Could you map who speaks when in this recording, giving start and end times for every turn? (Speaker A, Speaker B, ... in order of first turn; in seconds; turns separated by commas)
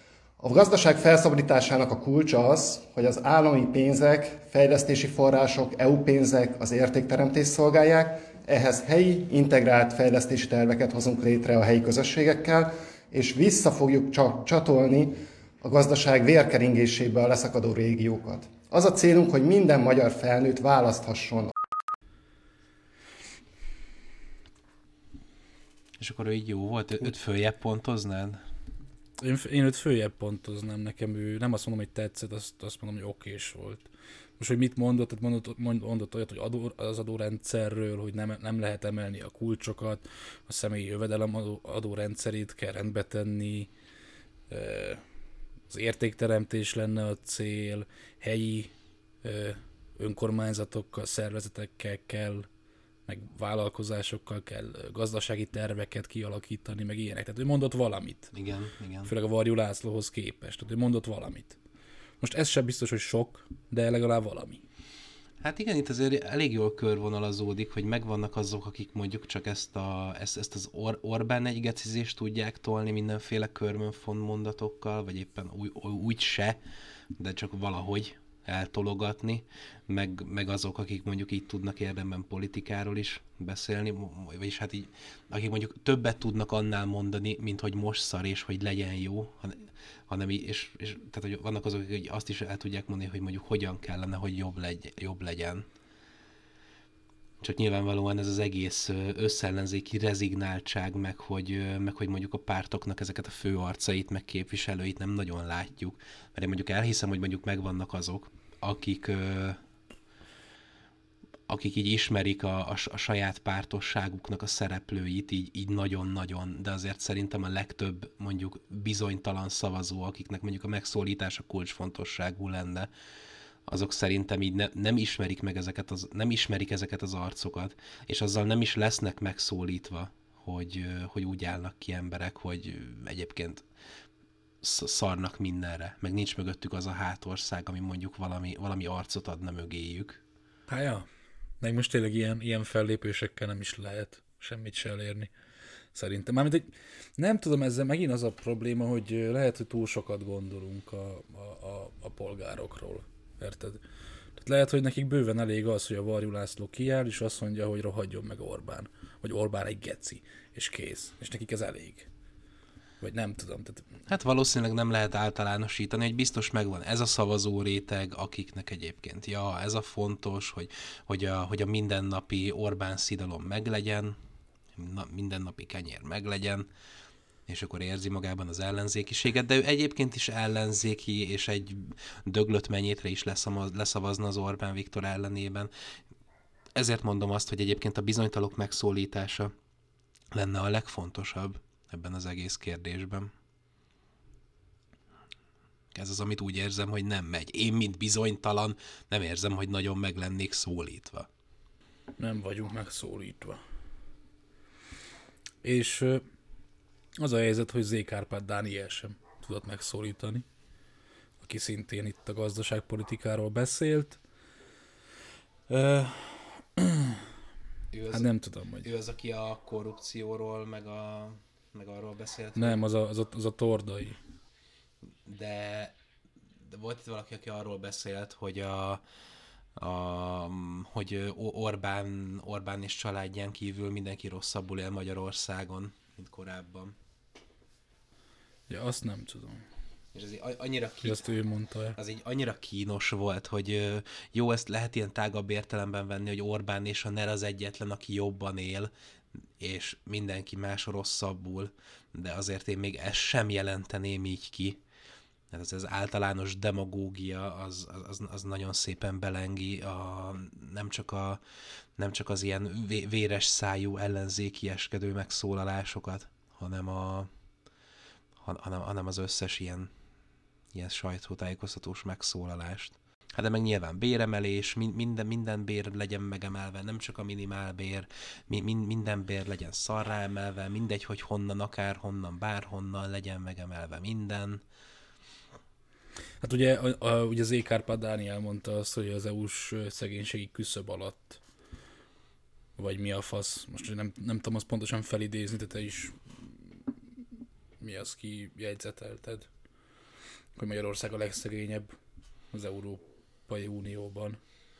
Speaker A: 0.4-21.5, Speaker B: 26.0-28.4, Speaker C: 29.2-43.7, Speaker C: 44.5-45.0, Speaker C: 45.7-52.5, Speaker C: 53.1-58.3, Speaker B: 58.3-59.1, Speaker C: 59.0-61.6, Speaker C: 62.2-64.6, Speaker B: 65.4-76.6, Speaker B: 77.2-95.7, Speaker B: 97.4-109.6, Speaker B: 111.5-122.9, Speaker B: 123.7-133.6, Speaker B: 134.6-140.2, Speaker C: 140.7-141.1, Speaker C: 141.6-145.3, Speaker C: 145.9-153.8, Speaker C: 154.4-162.1, Speaker C: 163.0-163.9, Speaker B: 164.1-174.2, Speaker B: 174.8-176.7, Speaker B: 177.5-185.7, Speaker B: 186.8-189.5, Speaker B: 190.3-193.3, Speaker B: 195.9-201.3, Speaker C: 202.2-203.6, Speaker C: 205.6-206.2, Speaker C: 207.2-210.4, Speaker C: 211.4-214.2, Speaker C: 215.7-217.3, Speaker B: 217.9-218.3, Speaker C: 218.1-218.9, Speaker B: 218.8-222.8, Speaker C: 222.6-224.2, Speaker B: 225.2-225.9, Speaker B: 226.7-229.0, Speaker B: 229.8-236.9, Speaker C: 238.7-239.6, Speaker B: 240.1-241.3, Speaker C: 241.0-242.0, Speaker B: 241.9-248.9, Speaker B: 249.6-254.8, Speaker B: 255.5-261.4, Speaker B: 262.0-267.3, Speaker B: 268.4-269.9, Speaker B: 270.7-284.6, Speaker C: 286.4-291.4, Speaker C: 292.8-296.9, Speaker C: 297.8-299.5, Speaker C: 300.6-301.9, Speaker C: 302.5-304.4